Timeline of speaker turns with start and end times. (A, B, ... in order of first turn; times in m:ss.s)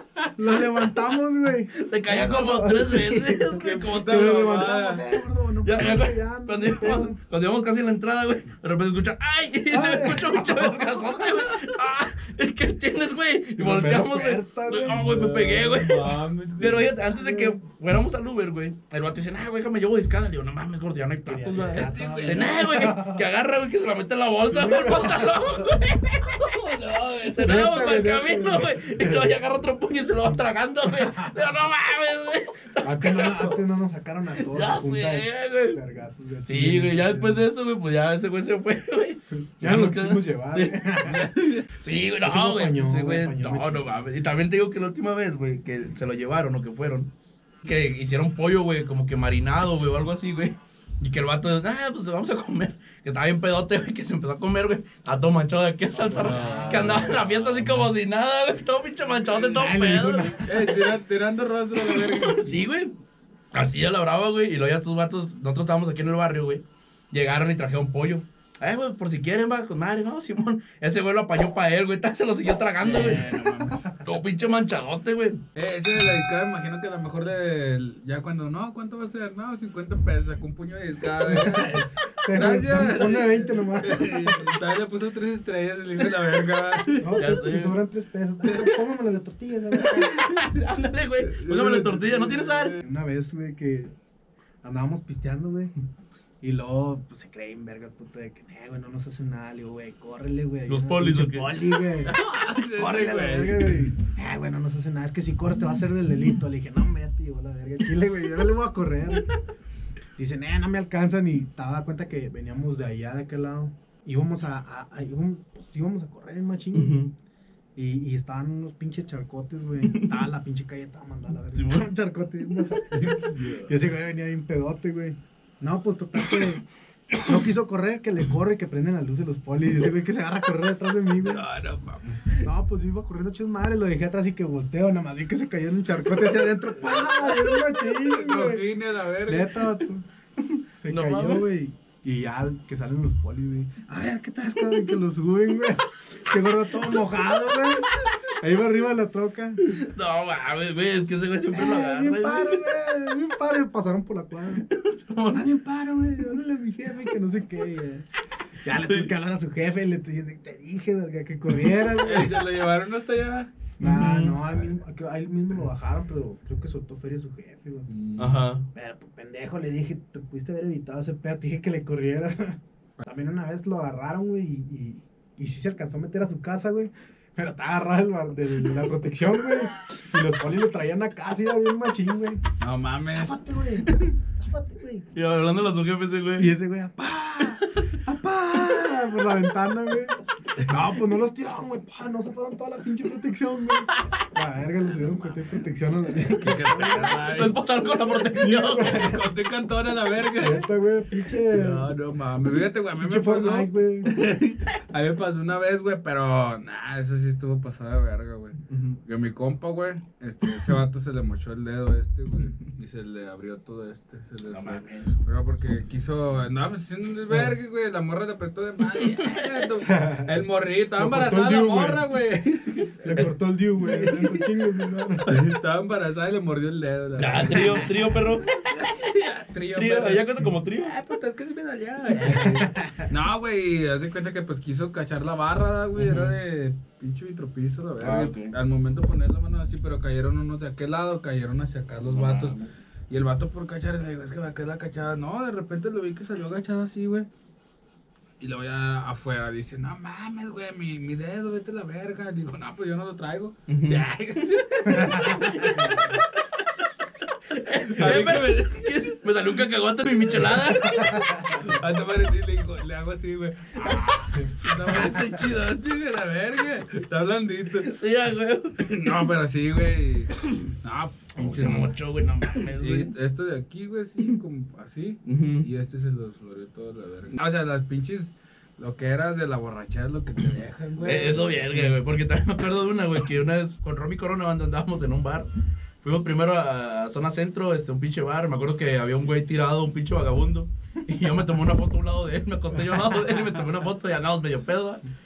0:00.3-0:07.2 A
0:01.7-0:04.5 B
0:03.6-0:05.0 C
0:05.6-0:33.6 B
0:09.7-0:11.4 A
0:13.6-0:15.4 A
0:14.9-0:16.9 C
0:17.0-0:17.6 A
0:21.2-0:23.3 A
0:21.6-0:22.6 C
0:24.5-0:25.8 A
0:27.4-0:29.4 A
0:30.3-0:31.4 A
0:32.8-0:37.4 A
0:34.4-0:35.8 B
0:36.4-0:47.1 B
0:39.3-0:41.3 A
0:42.2-0:43.9 A
0:47.6-1:00.4 B
0:55.9-0:57.9 A
0:56.2-0:57.1 C
0:59.5-1:00.8 A
1:00.4-1:02.5 C
1:01.8-1:03.0 B
1:03.5-1:13.5 B
1:12.8-1:13.8 C
1:12.9-1:13.2 A
1:14.0-1:15.4 B
1:15.5-1:27.2 C
1:21.2-1:24.5 A
1:27.0-1:30.4 A
1:27.2-1:27.8 B
1:29.9-1:32.7 B
1:31.2-1:32.8 C
1:32.8-1:33.9 A
1:34.6-1:35.7 A
1:36.4-1:42.1 A
1:40.7-1:41.5 B
1:42.1-1:43.9 C
1:42.7-1:49.3 A
1:50.2-1:57.1 A
1:56.7-1:57.1 B
1:57.8-2:06.6 A
1:59.9-2:00.2 B
2:01.5-2:01.9 B
2:07.2-2:11.4 A
2:11.2-2:12.4 C
2:12.4-2:18.7 A
2:17.8-2:19.6 C
2:19.2-2:20.0 A
2:20.4-2:21.4 B
2:20.7-2:29.6 A
2:29.8-2:32.6 B
2:31.5-2:34.7 A
2:34.6-2:35.5 B
2:35.3-2:38.1 A
2:38.6-2:42.4 A
2:42.0-2:43.5 C
2:43.8-2:44.4 B
2:43.8-2:47.9 A
2:47.9-2:48.4 C
2:48.2-2:48.7 B
2:48.7-3:02.4 A
3:02.6-3:03.4 C
3:03.0-3:05.1 A
3:05.1-3:06.5 B
3:06.4-3:17.2 A
3:16.2-3:17.6 C
3:17.2-3:19.0 B
3:18.3-3:19.3 A
3:18.8-3:20.7 C
3:20.3-3:21.9 A
3:21.5-3:43.2 C
3:23.0-3:24.1 A
3:28.7-3:29.0 B
3:34.5-3:35.1 B
3:39.0-3:39.4 B
3:39.8-3:40.4 A
3:41.0-3:42.2 A
3:42.8-3:43.3 B
3:43.0-3:45.4 A
3:43.8-3:44.3 C
3:45.3-3:47.9 C
3:47.2-3:48.5 B
3:48.4-3:50.2 C
3:49.7-3:50.9 B
3:50.8-4:02.6 C
3:52.3-3:53.0 A
3:55.9-3:56.4 B
3:58.0-3:58.5 B
4:02.0-4:02.7 B
4:03.1-4:07.3 C
4:08.4-4:16.2 C
4:13.7-4:14.1 B
4:15.0-4:16.0 A
4:17.5-4:21.1 B
4:17.8-4:19.1 C
4:20.5-4:27.9 C
4:20.9-4:21.2 A
4:27.8-4:29.1 B
4:28.8-4:31.9 C
4:31.4-4:33.1 B
4:32.8-4:42.0 C
4:35.2-4:35.7 B
4:41.0-4:45.5 B
4:46.0-4:55.0 B